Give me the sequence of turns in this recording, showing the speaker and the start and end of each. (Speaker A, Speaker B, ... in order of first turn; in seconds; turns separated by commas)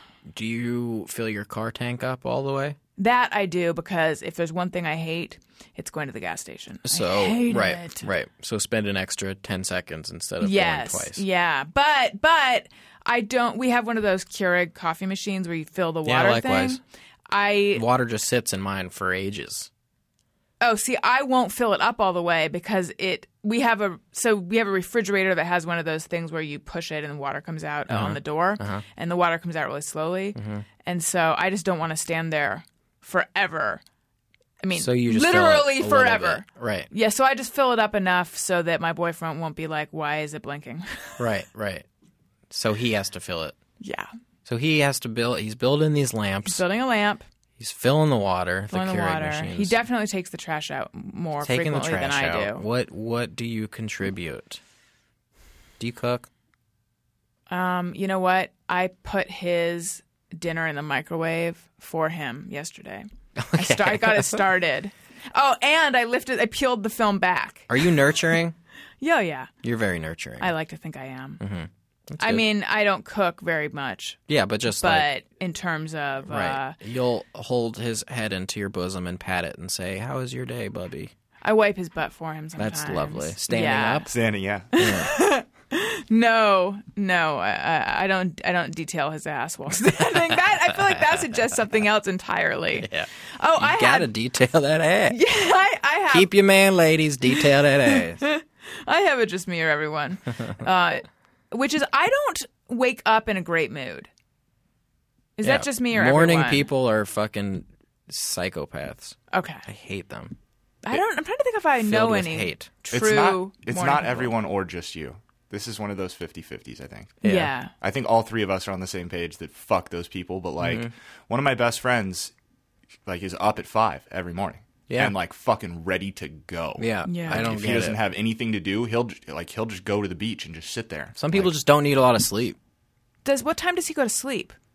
Speaker A: 0.3-2.8, Speaker B: 3.0-8.1, Speaker A: 6.8-11.2, Speaker B: 10.4-17.8, Speaker A: 16.0-16.8, Speaker A: 17.7-19.7, Speaker B: 20.6-33.8, Speaker A: 27.9-28.8, Speaker A: 30.4-30.6, Speaker B: 34.6-41.2, Speaker A: 34.7-36.9, Speaker A: 41.2-41.9, Speaker A: 42.5-43.5, Speaker B: 43.8-44.1, Speaker A: 44.5-46.6, Speaker B: 46.5-47.2, Speaker A: 47.6-49.8, Speaker B: 48.7-52.6, Speaker A: 51.4-54.6, Speaker A: 55.8-56.3, Speaker B: 57.5-67.7, Speaker A: 63.4-64.4, Speaker A: 67.7-68.5, Speaker B: 69.0-69.5, Speaker A: 69.6-70.5, Speaker B: 70.4-71.4, Speaker A: 71.4-72.4, Speaker B: 72.2-76.8, Speaker A: 74.3-75.1, Speaker A: 76.3-81.1, Speaker B: 81.4-84.1, Speaker A: 82.6-84.1, Speaker C: 84.1-84.7, Speaker B: 84.7-94.1, Speaker A: 84.8-85.1, Speaker A: 90.3-91.0, Speaker A: 92.8-95.2, Speaker B: 95.1-96.3, Speaker A: 96.1-98.3, Speaker B: 97.3-104.1, Speaker B: 105.4-106.7, Speaker A: 105.4-110.3, Speaker B: 109.3-109.6, Speaker B: 110.8-114.3, Speaker A: 111.8-112.7, Speaker C: 112.9-117.2, Speaker A: 117.2-117.5, Speaker B: 117.2-117.7, Speaker C: 117.7-122.3, Speaker A: 120.6-120.9, Speaker C: 123.0-131.5, Speaker A: 124.9-125.2, Speaker A: 126.8-128.0, Speaker B: 127.0-127.5, Speaker A: 131.2-132.6, Speaker B: 133.2-134.5